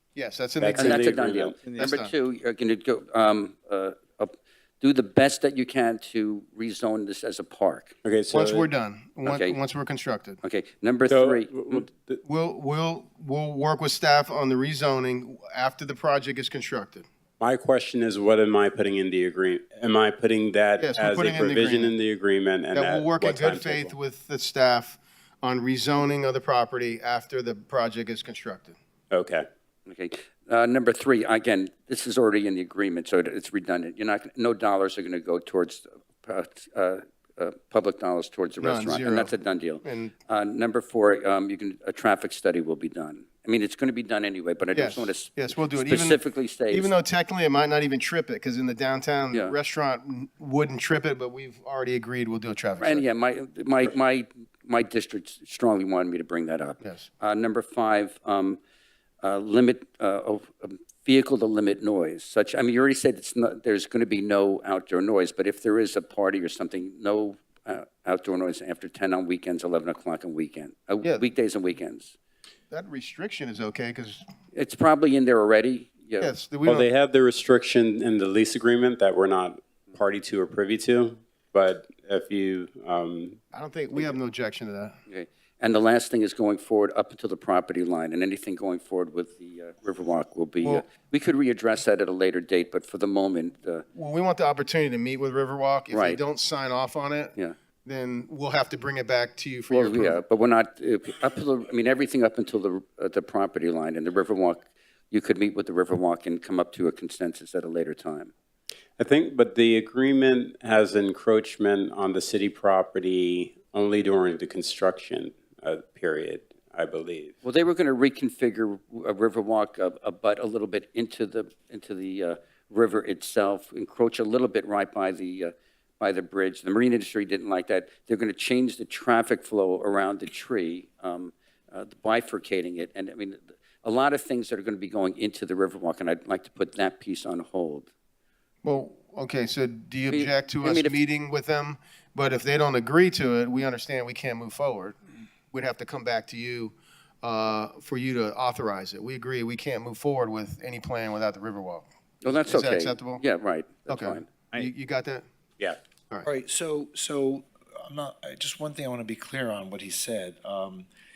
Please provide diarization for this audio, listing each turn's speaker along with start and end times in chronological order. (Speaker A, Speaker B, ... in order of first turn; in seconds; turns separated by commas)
Speaker A: 0.1-1.1, Speaker B: 0.6-1.6, Speaker C: 0.8-8.0, Speaker A: 1.7-2.1, Speaker B: 8.0-8.7, Speaker A: 8.3-10.4, Speaker C: 9.2-9.6, Speaker C: 10.4-11.9, Speaker B: 11.1-12.2, Speaker A: 12.2-17.1, Speaker B: 17.4-23.9, Speaker A: 20.8-21.9, Speaker A: 22.7-28.8, Speaker B: 29.1-29.5, Speaker C: 29.9-46.9, Speaker A: 38.6-39.3, Speaker A: 39.8-40.1, Speaker A: 44.7-53.0, Speaker C: 52.8-58.6, Speaker A: 56.8-57.1, Speaker C: 59.2-72.2, Speaker A: 72.7-74.2, Speaker C: 74.5-76.3, Speaker A: 76.2-76.9, Speaker B: 76.6-83.4, Speaker A: 83.5-85.0, Speaker C: 85.1-93.8, Speaker A: 93.9-100.2, Speaker C: 95.9-96.2, Speaker C: 99.7-108.3, Speaker B: 109.0-117.3, Speaker C: 117.4-137.9, Speaker A: 138.6-145.0, Speaker C: 140.1-141.0, Speaker A: 145.5-151.9, Speaker C: 152.2-154.3, Speaker A: 152.4-153.2, Speaker A: 153.9-155.2, Speaker D: 156.2-160.9